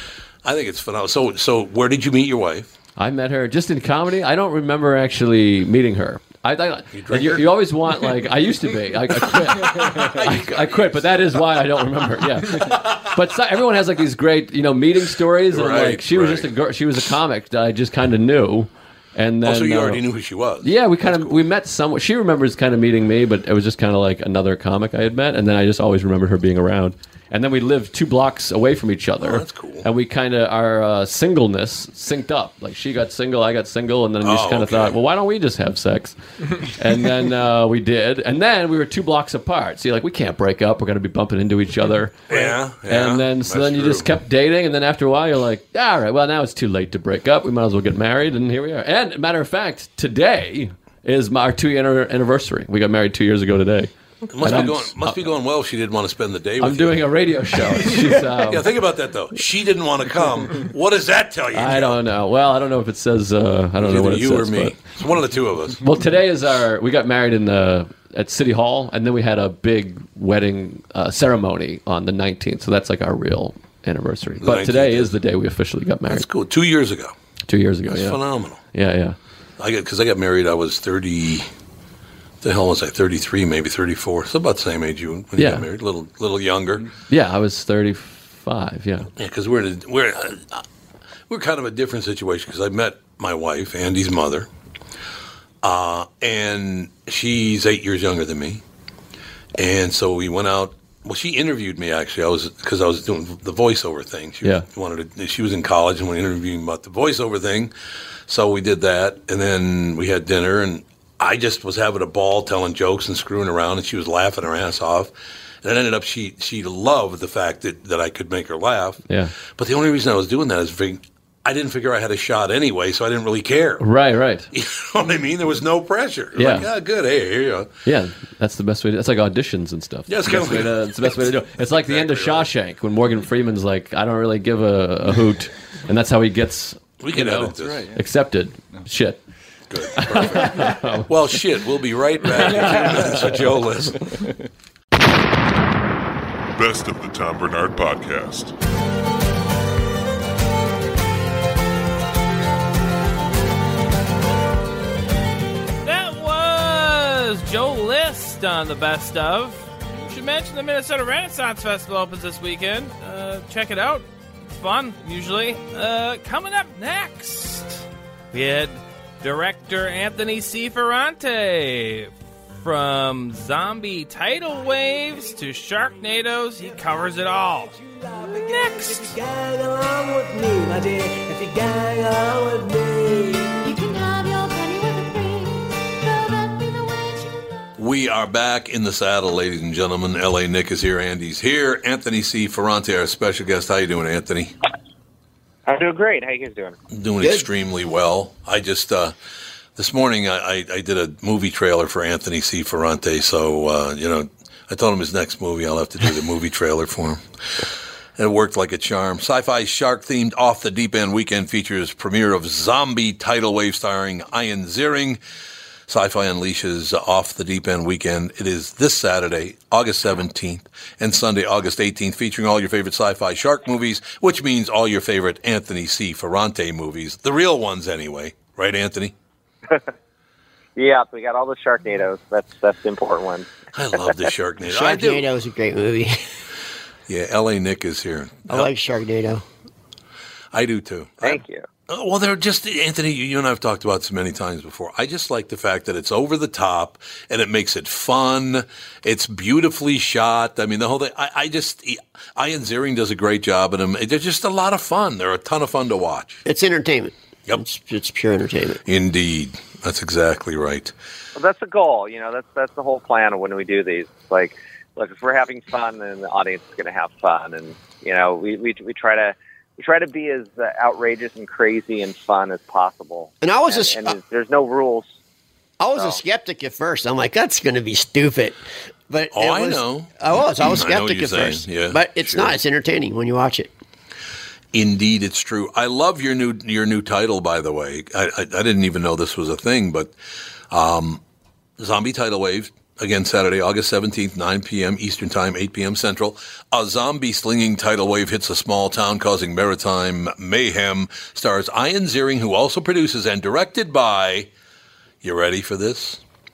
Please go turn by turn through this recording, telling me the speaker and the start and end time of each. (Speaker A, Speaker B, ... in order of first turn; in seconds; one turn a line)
Speaker A: 0.4-2.7
Speaker B: 3.0-20.0
Speaker A: 6.9-7.5
Speaker A: 10.2-10.9
Speaker A: 15.5-16.5
Speaker A: 19.4-21.4
Speaker B: 20.6-55.4
Speaker A: 29.2-29.9
Speaker A: 34.2-35.0
Speaker A: 42.3-44.1
Speaker A: 54.3-57.2
Speaker B: 56.6-58.7
Speaker A: 57.8-62.0
Speaker B: 61.5-64.8
Speaker A: 63.8-65.8
Speaker B: 65.8-76.3
Speaker A: 74.4-75.1
Speaker A: 76.1-77.1
Speaker B: 77.5-79.2
Speaker A: 77.9-78.6
Speaker A: 79.6-81.5
Speaker A: 82.4-86.9
Speaker B: 85.4-85.7
Speaker B: 87.1-89.1
Speaker A: 89.2-90.6
Speaker A: 91.3-94.5
Speaker A: 95.6-98.6
Speaker A: 99.6-107.7
Speaker A: 108.3-123.9
Speaker B: 119.1-119.3
Speaker B: 123.8-124.5
Speaker A: 124.5-127.7
Speaker B: 126.3-126.7
Speaker B: 127.8-139.2
Speaker A: 130.1-132.5
Speaker A: 137.0-137.9
Speaker A: 139.7-144.1
Speaker B: 139.9-141.1
Speaker B: 142.3-143.4
Speaker C: 146.6-148.5
Speaker D: 155.8-179.2
Speaker A: 187.8-194.5
Speaker E: 195.7-196.8
Speaker A: 196.9-199.1
Speaker A: 199.8-207.7
Speaker A: 208.2-215.2
Speaker A: 215.9-229.1
Speaker E: 230.8-233.4
Speaker A: 233.7-235.3
Speaker F: 234.6-236.2
Speaker A: 237.1-238.7
Speaker F: 238.5-239.4
Speaker A: 240.5-256.4
Speaker E: 241.2-241.6
Speaker F: 256.4-258.8
Speaker A: 258.9-260.9
Speaker E: 261.4-275.1
Speaker F: 273.4-274.2
Speaker F: 275.8-283.7
Speaker A: 279.3-282.6
Speaker A: 284.7-290.1
Speaker A: 290.7-291.2
Speaker A: 291.8-304.5
Speaker A: 305.2-306.2